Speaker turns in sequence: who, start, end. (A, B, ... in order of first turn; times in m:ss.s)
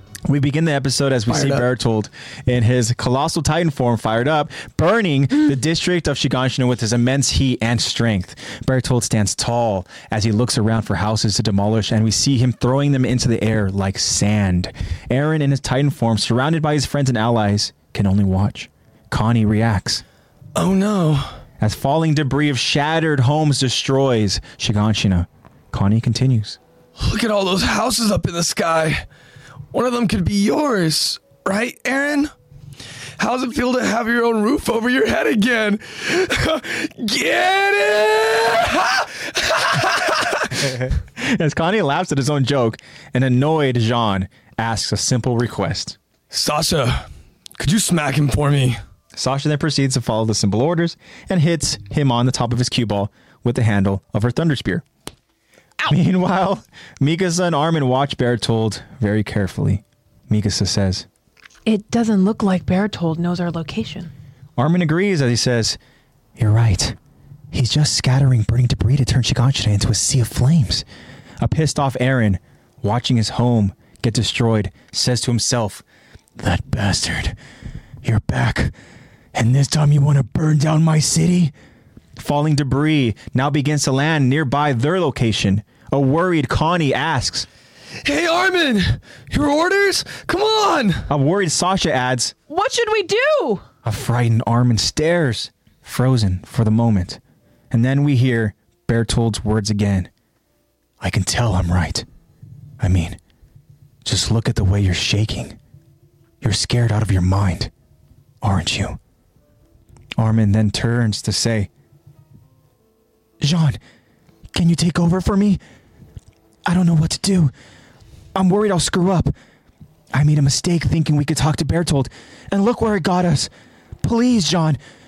0:00.3-0:20.0 A
0:01.3-0:01.6 B
0:20.5-0:21.4 B
0:21.6-0:26.6 A
0:27.0-0:29.0 B
0:29.7-0:32.3 B
0:33.2-0:40.7 B
0:40.6-0:46.0 A
0:46.3-0:47.0 B
0:47.6-0:48.8 B
0:49.2-0:54.8 A
0:55.8-1:01.0 A
1:01.6-1:04.1 C
1:04.6-1:05.8 A
1:06.4-1:07.0 A
1:07.5-1:10.8 A
1:11.4-1:15.8 A
1:16.4-1:17.4 A
1:18.0-1:18.7 A
1:19.3-1:21.5 A
1:22.2-1:27.5 A
1:28.0-1:31.1 B
1:31.1-1:32.3 A
1:32.5-1:33.6 C
1:33.8-1:37.2 A
1:37.7-1:40.1 A
1:41.0-1:42.0 A
1:42.8-1:43.2 A
1:44.0-1:45.6 A
1:46.4-1:47.7 A
1:48.4-1:49.0 A
1:50.2-1:51.7 A
1:53.4-1:53.8 A
1:54.5-1:55.6 A
1:56.6-1:57.5 A
1:58.3-1:59.3 A
2:00.1-2:03.5 A
2:04.0-2:04.8 A